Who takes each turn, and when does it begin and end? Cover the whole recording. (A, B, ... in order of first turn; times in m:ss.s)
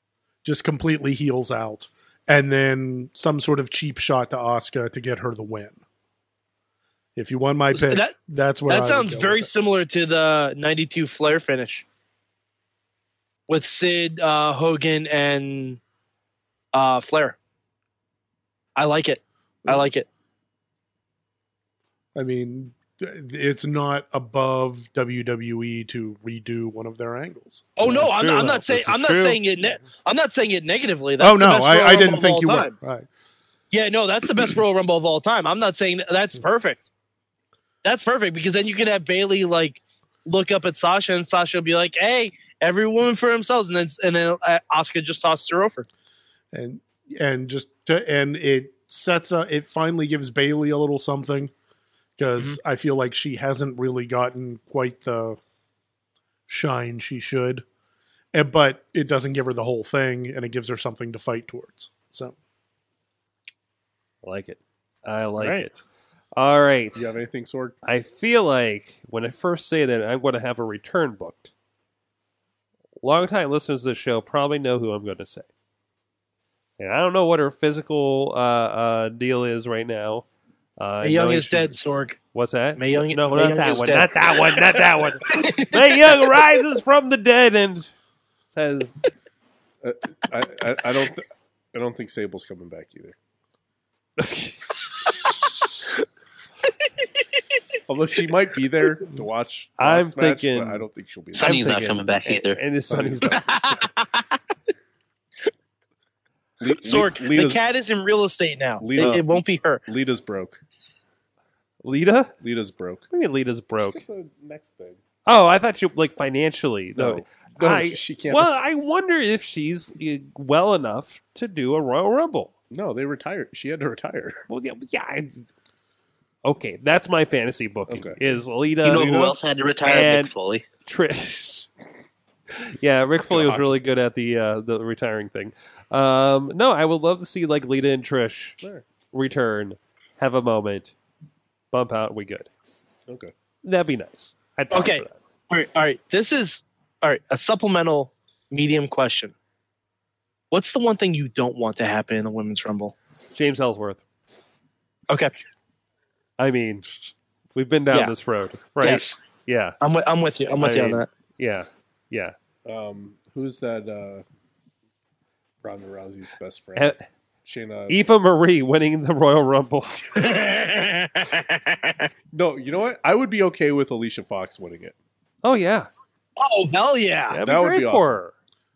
0:00.4-0:05.8 A
0:07.2-0:09.5 A
0:07.7-0:08.1 B
0:08.7-0:11.8 B
0:13.5-0:15.8 B
0:16.7-0:17.4 B
0:18.8-0:20.1 B
0:22.1-0:28.0 A
0:27.8-0:32.7 B
0:27.8-0:29.4 C
0:31.2-0:33.1 A
0:33.7-0:36.8 B
0:37.8-0:45.9 B
0:46.5-0:51.5 A
0:52.2-0:55.4 A
0:56.5-0:57.6 A
0:58.3-1:02.4 A
1:04.2-1:05.8 C
1:05.4-1:05.6 B
1:06.4-1:07.0 C
1:07.0-1:07.7 D
1:07.8-1:11.5 C
1:13.0-1:15.5 C
1:16.8-1:20.2 C
1:20.8-1:21.8 C
1:21.0-1:22.2 B
1:22.3-1:27.9 C
1:22.8-1:25.8 B
1:28.5-1:29.0 C
1:29.8-1:33.1 D
1:34.2-1:35.6 C
1:37.9-1:41.8 D
1:39.8-1:43.6 C
1:41.3-1:42.6 E
1:42.9-1:43.7 D
1:43.4-1:44.2 B
1:46.6-1:47.6 D
1:46.8-1:49.8 B
1:48.8-1:50.6 D
1:51.8-1:52.3 C
1:52.4-1:53.0 D
1:53.1-1:54.0 C
1:53.8-1:55.0 D
1:55.2-2:02.5 C
1:57.0-1:58.6 D
2:02.7-2:04.4 D
2:04.5-2:05.5 C
2:06.4-2:10.3 C
2:07.9-2:08.2 D
2:08.8-2:10.6 E
2:10.8-2:11.7 C
2:12.6-2:18.6 C
2:13.3-2:13.7 D
2:19.1-2:20.9 C
2:21.7-2:22.5 C
2:23.1-2:23.3 D
2:23.6-2:25.1 C
2:24.7-2:29.3 B
2:30.5-2:32.9 B
2:33.3-2:34.0 C
2:36.4-2:39.8 C
2:38.8-2:39.2 B
2:39.8-2:41.1 B
2:40.6-2:42.3 C
2:42.6-2:44.2 D
2:45.6-2:46.9 D
2:47.4-2:48.0 D
2:47.9-2:50.4 C
2:50.2-2:52.1 B
2:52.3-2:54.9 D
2:55.4-2:55.9 C
2:56.4-2:57.4 B
2:57.3-2:58.3 C
2:57.4-2:58.1 D